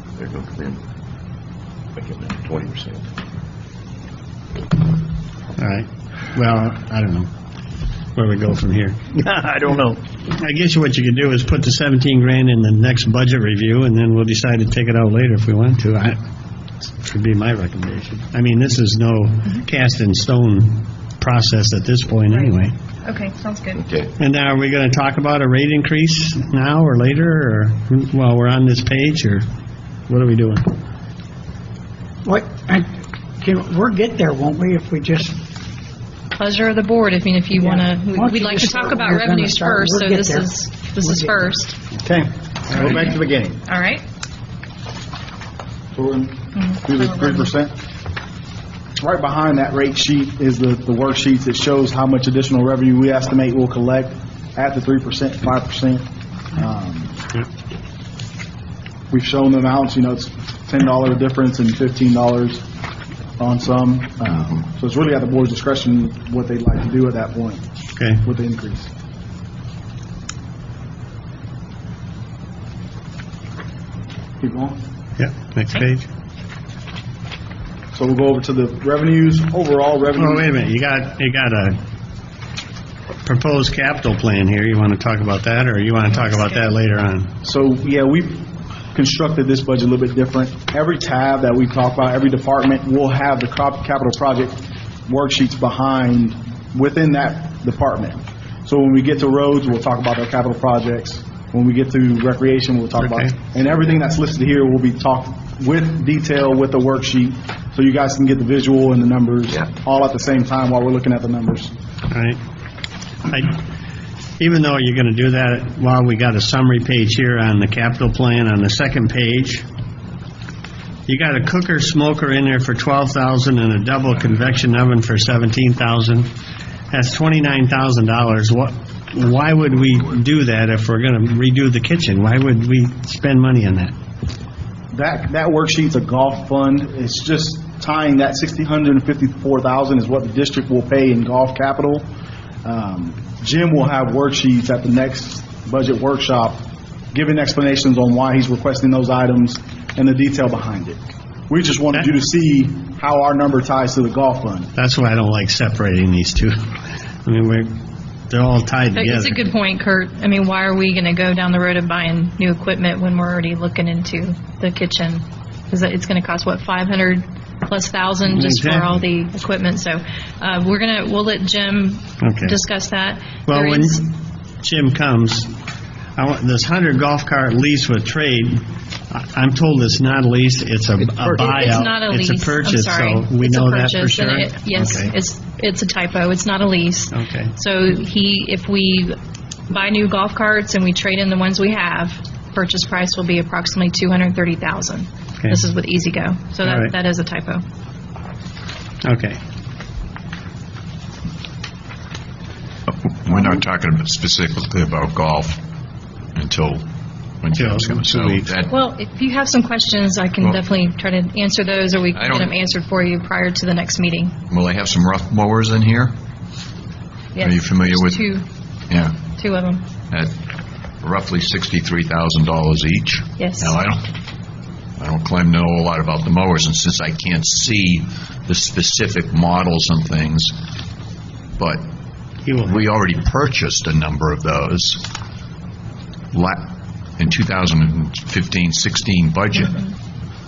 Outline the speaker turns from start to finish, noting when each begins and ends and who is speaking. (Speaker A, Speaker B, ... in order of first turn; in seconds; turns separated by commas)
Speaker A: 0.2-0.8, Speaker A: 1.9-3.1, Speaker B: 5.6-7.3, Speaker B: 8.1-9.0, Speaker C: 9.2-9.9, Speaker B: 10.3-16.2, Speaker B: 16.8-22.7, Speaker D: 23.0-23.8, Speaker A: 23.7-24.1, Speaker B: 24.2-29.4, Speaker B: 30.1-30.7, Speaker E: 32.2-32.9, Speaker E: 33.4-35.4, Speaker D: 36.4-41.8, Speaker E: 37.6-41.5, Speaker C: 42.0-43.6, Speaker B: 42.7-43.0, Speaker D: 42.8-44.0, Speaker F: 45.9-47.7, Speaker D: 46.5-47.5, Speaker F: 49.0-57.2, Speaker F: 59.1-62.6, Speaker F: 63.4-67.6, Speaker B: 68.0-68.2, Speaker F: 68.2-68.9, Speaker F: 74.4-74.8, Speaker B: 75.2-76.1, Speaker F: 77.9-80.5, Speaker B: 80.2-81.8, Speaker B: 83.2-87.3, Speaker F: 87.4-111.7, Speaker B: 103.0-103.3, Speaker B: 112.1-112.4, Speaker B: 113.3-113.6, Speaker B: 114.4-119.7, Speaker B: 121.1-126.3, Speaker B: 126.9-133.9, Speaker F: 134.9-142.1, Speaker F: 142.6-154.7, Speaker B: 154.8-156.7, Speaker B: 157.2-157.8, Speaker B: 158.3-159.4, Speaker D: 158.9-174.0, Speaker B: 168.3-169.0, Speaker B: 172.2-172.6, Speaker B: 173.5-175.5, Speaker B: 176.2-185.1, Speaker C: 181.1-181.5, Speaker D: 181.4-189.2, Speaker B: 187.1-187.5, Speaker D: 189.7-197.6, Speaker B: 196.6-196.9, Speaker B: 199.0-199.4, Speaker G: 202.9-205.6, Speaker G: 206.3-206.8, Speaker G: 207.4-208.7, Speaker B: 207.5-208.5, Speaker D: 208.7-214.3, Speaker G: 212.1-212.5, Speaker G: 214.5-216.1, Speaker D: 217.3-218.4, Speaker G: 217.4-218.3, Speaker G: 218.9-219.2, Speaker D: 219.3-219.8, Speaker G: 220.1-220.3, Speaker G: 221.0-224.0, Speaker D: 223.4-223.8, Speaker G: 225.0-230.6, Speaker G: 231.6-231.8, Speaker B: 232.4-232.8, Speaker G: 232.6-235.0, Speaker G: 236.3-236.7, Speaker G: 237.2-239.8